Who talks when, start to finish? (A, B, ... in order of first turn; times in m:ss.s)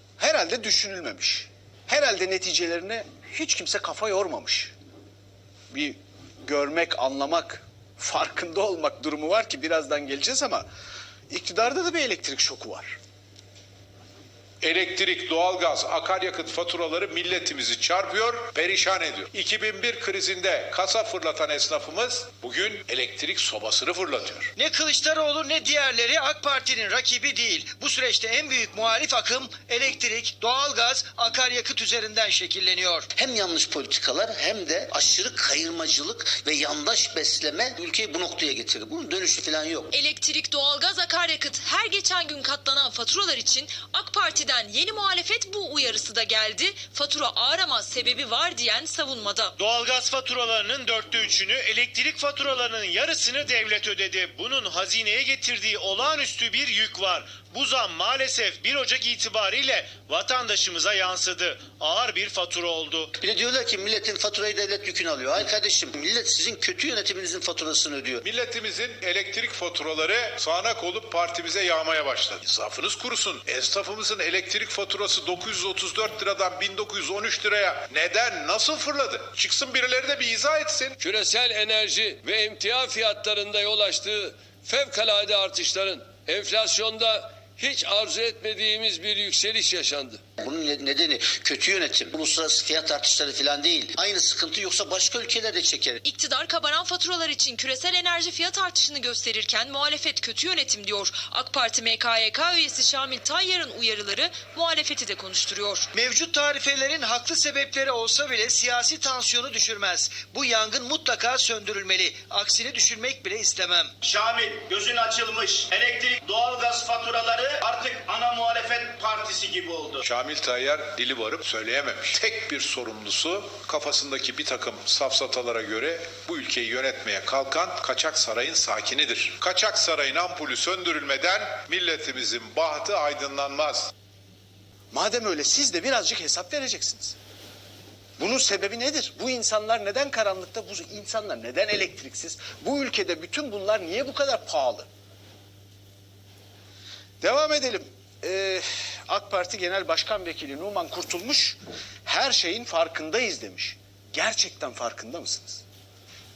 0:00.2-0:04.7 A
0:05.7-0:10.6 A
0:11.3-0:13.0 A
0:14.6-0:24.5 B
0:24.6-0:33.1 C
0:33.2-0:39.9 D
0:39.9-0:49.5 E
0:49.6-1:03.1 F
1:03.2-1:08.2 D
1:08.2-1:21.0 B
1:21.0-1:30.2 G
1:30.4-1:36.0 D
1:36.0-1:45.9 E
1:45.9-1:53.9 C
1:54.0-2:00.0 H
2:00.0-2:13.9 B
2:14.9-2:17.1 A
2:18.2-2:24.9 A
2:27.2-2:35.6 A